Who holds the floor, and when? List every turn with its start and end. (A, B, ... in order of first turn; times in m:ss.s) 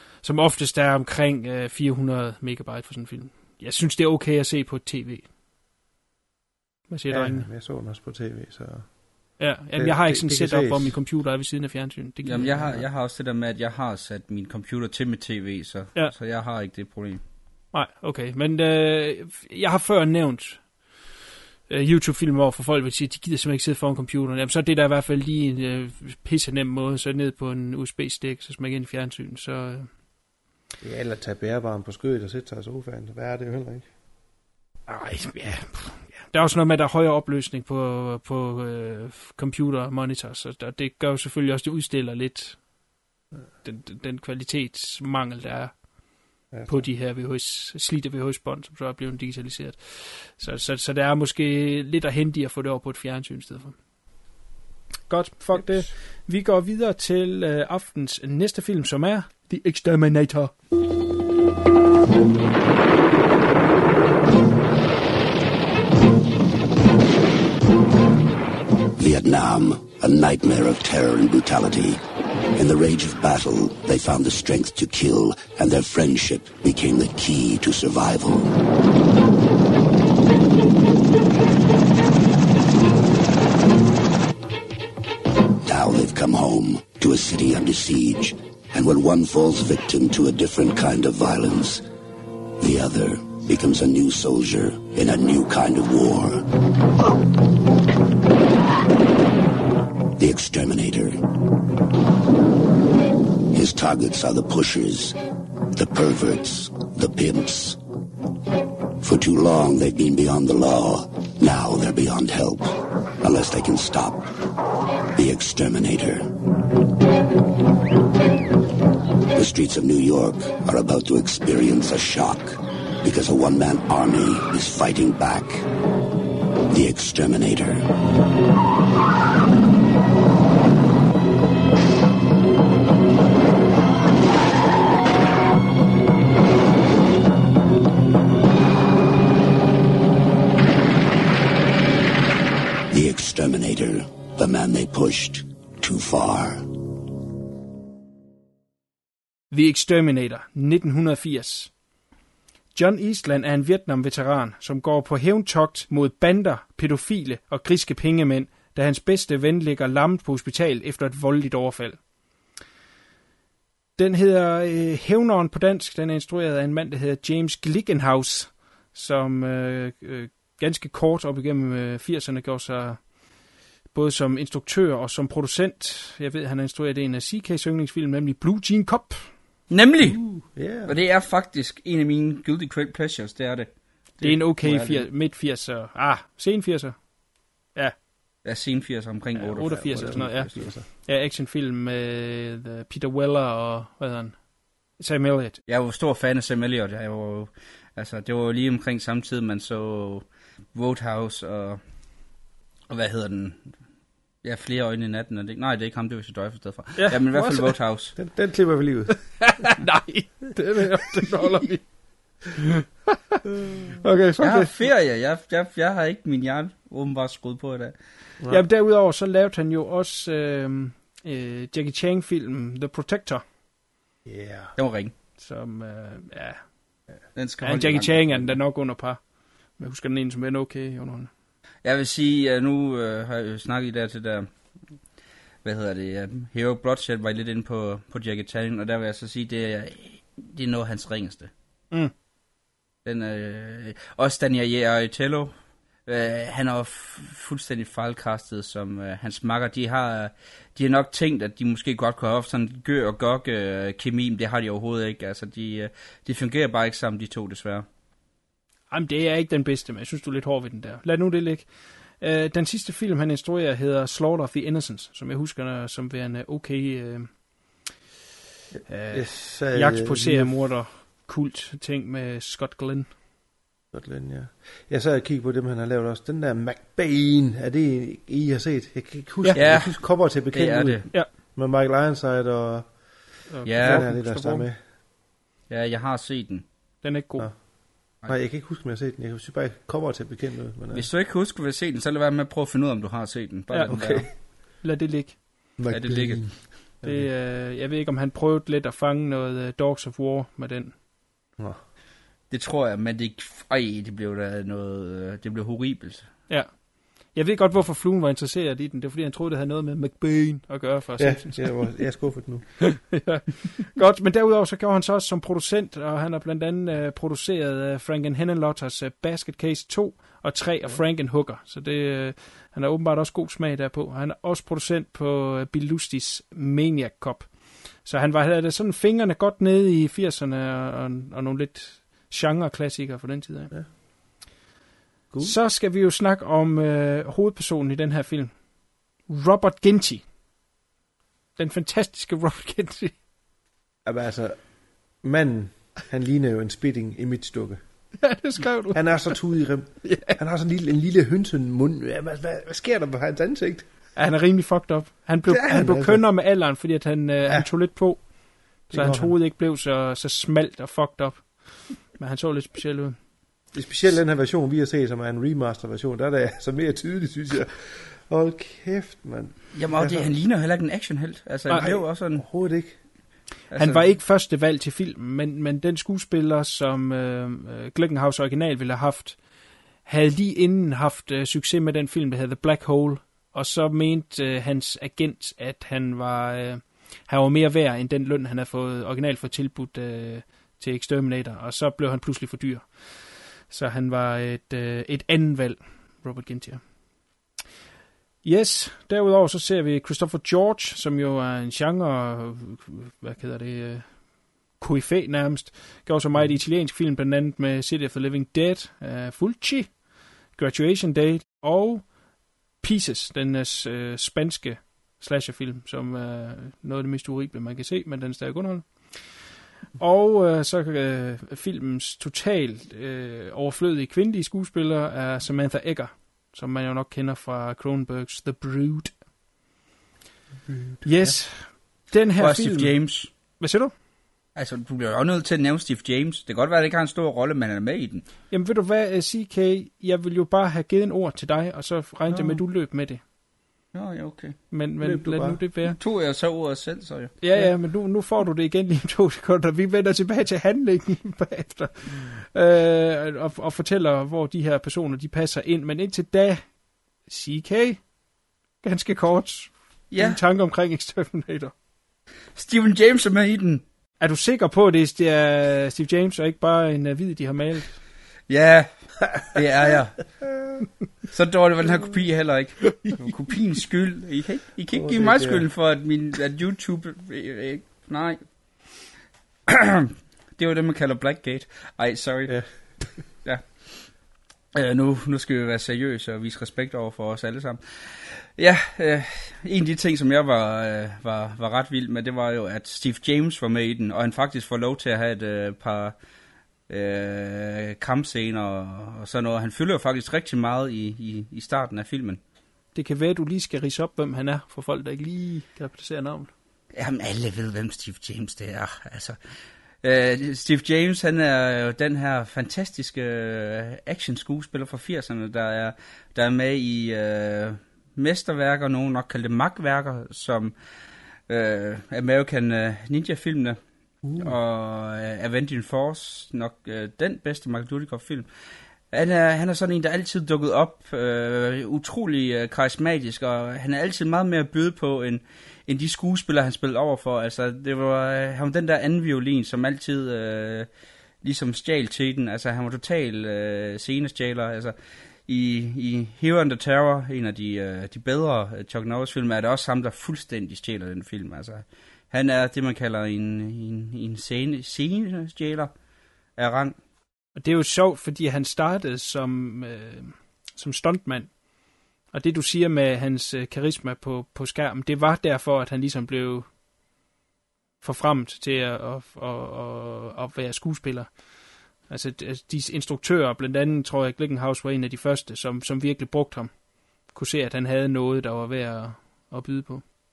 0:00.2-0:05.3 A
0:06.9-0:07.5 A
0:07.1-0:11.0 B
0:09.4-0:12.8 A
0:12.2-0:17.2 C
0:17.7-0:21.0 A
0:21.7-0:29.9 A
0:30.8-0:33.9 B
0:34.9-0:42.7 A
0:43.6-0:45.9 A
0:46.5-0:53.8 A
0:46.5-0:46.9 B
0:55.1-1:00.5 A
1:09.0-1:12.0 D
1:12.5-1:18.5 D
1:25.6-1:31.8 D
1:32.6-1:36.5 D
1:40.2-1:41.2 D
1:43.5-1:45.2 D
1:45.7-1:47.8 D
1:49.0-1:54.2 D
1:55.2-1:56.3 D
1:59.3-2:05.6 D
2:06.7-2:07.8 D
2:22.9-2:26.7 D
2:29.5-2:31.7 A
2:32.7-2:42.0 A
2:44.0-2:53.1 A
2:53.9-2:59.3 A
2:59.7-3:05.1 C
3:00.0-3:00.9 B
3:04.2-3:07.1 A
3:08.4-3:10.2 C
3:09.4-3:15.6 A
3:09.6-3:10.8 B
3:15.7-3:21.8 C
3:22.9-3:23.7 C
3:24.4-3:28.2 C
3:27.0-3:27.8 A
3:28.2-3:29.5 B
3:29.4-3:31.9 A
3:31.1-3:31.5 B
3:33.1-3:33.4 A
3:34.0-3:34.7 A
3:34.4-3:37.9 C
3:38.5-3:43.4 A
3:44.2-3:44.7 B
3:44.8-3:45.1 C
3:45.4-3:46.6 A
3:47.3-3:48.6 C
3:47.6-3:49.2 A
3:49.8-3:51.3 A
3:51.8-3:54.5 C
3:55.6-4:01.5 C
4:03.0-4:05.5 C
4:06.0-4:17.8 C
4:18.9-4:27.8 A
4:28.7-4:30.6 B
4:28.9-4:33.1 A
4:33.9-4:42.9 B
4:39.5-4:41.1 C
4:43.5-4:44.7 A
4:43.6-4:44.0 C
4:43.7-4:44.8 B
4:45.7-4:46.6 C
4:47.0-4:47.5 A
4:47.4-4:51.1 B
4:50.9-4:54.3 C
4:53.7-4:55.6 A
4:53.8-4:54.3 B
4:55.8-4:57.3 B
4:55.9-4:56.7 C
4:57.0-5:01.0 A
5:02.5-5:06.3 C
5:06.5-5:11.9 A
5:11.2-5:13.1 B
5:13.0-5:33.7 A
5:35.3-5:35.6 B
5:35.4-5:38.6 A
5:39.2-5:40.2 A
5:41.6-5:43.2 A
5:44.0-5:47.8 B
5:48.2-5:49.4 A
5:48.9-5:53.9 B
5:50.0-5:50.4 A
5:54.2-6:03.2 A
5:55.4-5:56.3 B
5:58.9-5:59.4 B
6:03.7-6:10.3 B
6:09.7-6:12.4 C
6:11.7-6:13.0 B
6:13.7-6:14.0 C
6:13.7-6:19.5 A
6:20.0-6:36.9 A
6:38.4-6:52.2 A
6:46.3-6:46.6 B
6:52.8-7:09.2 A
7:10.6-7:11.4 B
7:11.0-7:13.9 A
7:12.4-7:13.3 C
7:14.6-7:18.2 C
7:18.5-7:23.2 A
7:23.9-7:24.6 C
7:24.7-7:26.0 A
7:25.0-7:25.6 B
7:25.8-7:27.4 C
7:27.4-7:38.1 A
7:38.8-7:41.7 A
7:40.1-7:40.4 C
7:42.5-7:43.8 C
7:44.2-7:48.0 A
7:48.5-7:50.4 C
7:51.3-7:58.4 C
7:54.9-7:55.6 B
7:59.7-8:04.0 C
8:02.4-8:03.2 B
8:04.7-8:16.1 C
8:16.9-8:22.4 C
8:22.9-8:26.5 A
8:26.9-8:29.4 C
8:30.0-8:40.7 C
8:41.5-8:43.8 C
8:44.2-8:44.5 B
8:44.4-8:48.5 C
8:49.1-9:00.9 C
9:01.4-9:04.9 C
9:05.5-9:15.9 C
9:16.6-9:17.0 C
9:17.6-9:21.6 A
9:22.3-9:26.7 A
9:28.0-9:31.4 A
9:32.0-9:40.0 A